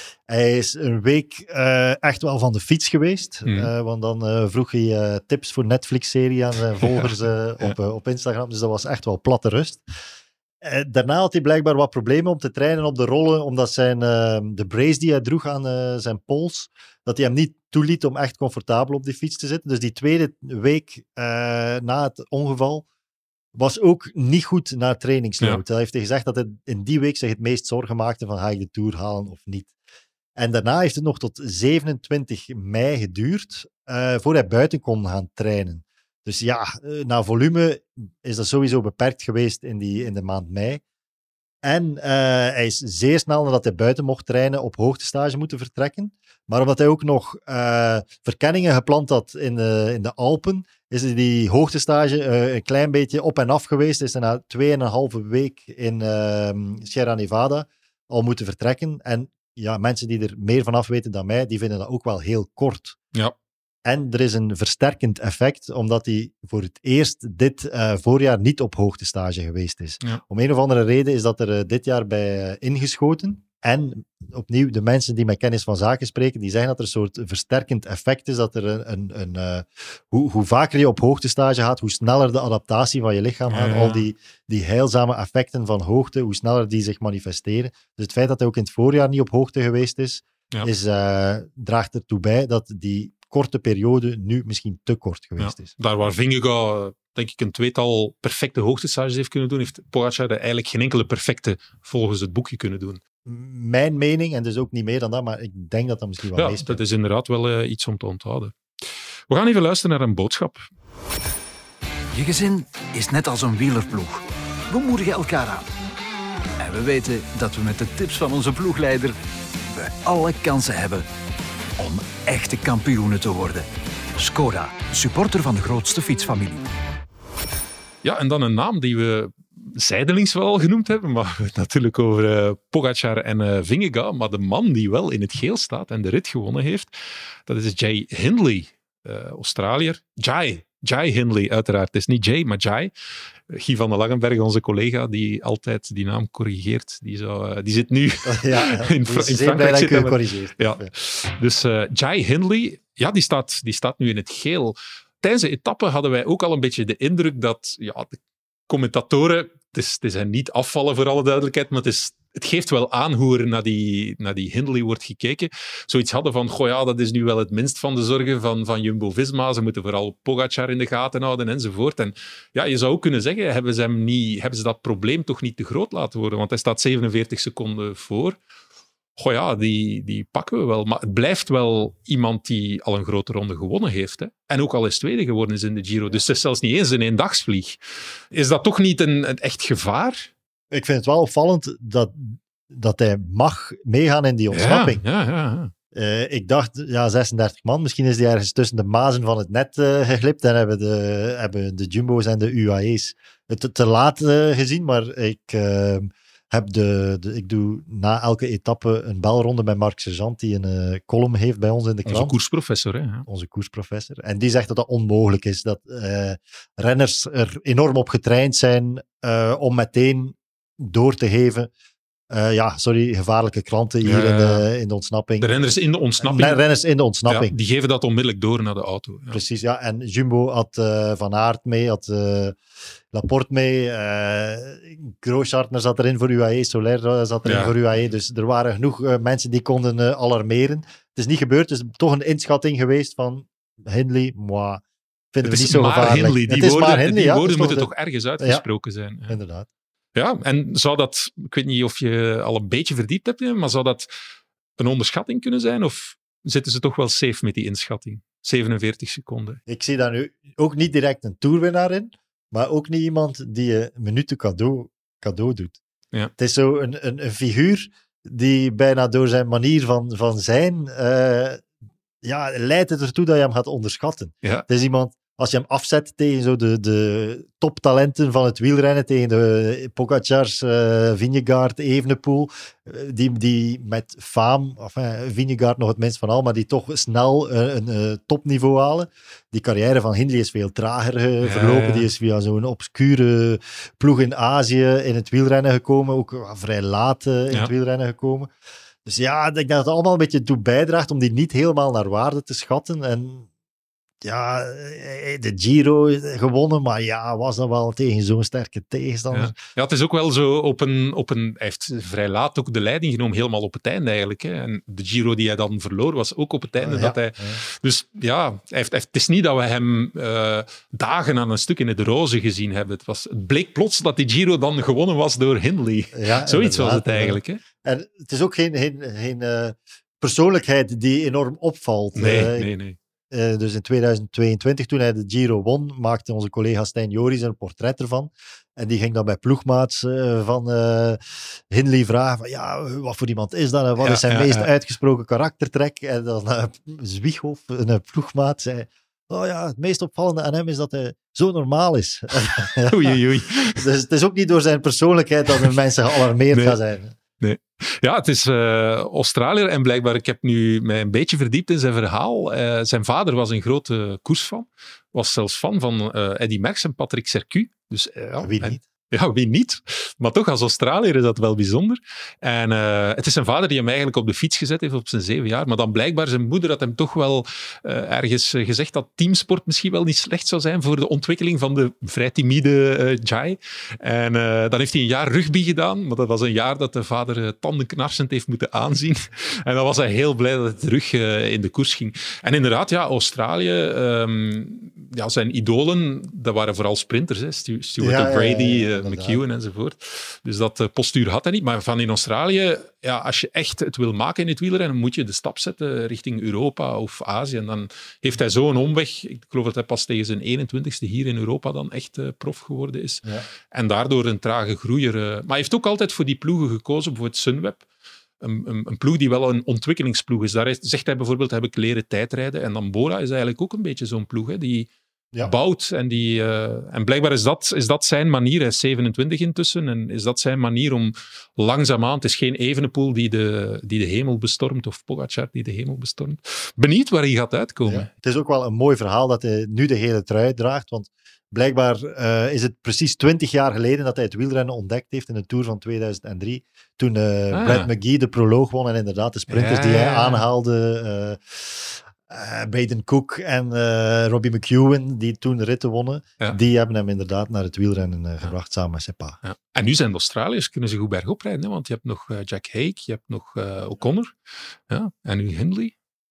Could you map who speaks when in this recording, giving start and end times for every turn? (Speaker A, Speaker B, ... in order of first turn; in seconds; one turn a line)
Speaker A: 0.3-9.8
Speaker B: 3.5-3.7
Speaker B: 6.8-7.1
Speaker A: 10.6-22.9
Speaker A: 23.6-29.7
Speaker A: 30.4-40.8
Speaker A: 41.6-63.0
Speaker A: 63.9-95.7
Speaker B: 83.5-84.0
Speaker B: 95.4-103.0
Speaker A: 103.2-106.8
Speaker B: 106.3-108.6
Speaker B: 109.3-110.6
Speaker C: 112.1-115.7
Speaker C: 116.6-119.2
Speaker C: 119.7-121.1
Speaker C: 121.8-126.7
Speaker B: 128.0-136.9
Speaker B: 137.5-142.9
Speaker B: 143.5-178.4
Speaker A: 148.2-150.9
Speaker B: 179.2-187.8
Speaker B: 188.3-190.3
Speaker A: 190.7-195.0
Speaker B: 194.5-195.7
Speaker A: 195.9-212.3
Speaker B: 212.1-213.3
Speaker A: 213.3-221.7
Speaker A: 222.3-225.5
Speaker B: 224.0-224.7
Speaker B: 225.4-226.6
Speaker A: 226.2-227.5
Speaker B: 227.3-229.4
Speaker A: 229.3-232.6
Speaker A: 233.1-248.6
Speaker B: 237.4-237.8
Speaker B: 245.4-249.4
Speaker A: 249.3-249.7
Speaker B: 250.2-254.1
Speaker B: 254.8-259.6
Speaker A: 259.7-265.8
Speaker A: 266.4-271.6
Speaker A: 272.2-298.5
Speaker B: 291.4-292.1
Speaker A: 299.1-303.5
Speaker A: 304.2-309.5
Speaker B: 309.3-327.6
Speaker A: 316.8-317.6
Speaker A: 326.1-332.7
Speaker B: 332.2-333.0
Speaker A: 333.3-353.2
Speaker B: 344.0-344.7
Speaker B: 352.9-353.9
Speaker A: 353.7-357.2
Speaker B: 356.5-356.8
Speaker B: 357.4-417.9
Speaker A: 368.4-368.8
Speaker A: 398.0-399.4
Speaker B: 418.4-424.9
Speaker B: 425.4-438.1
Speaker A: 437.9-459.4
Speaker B: 447.5-447.9
Speaker B: 449.5-450.4
Speaker B: 459.4-464.3
Speaker B: 464.9-465.9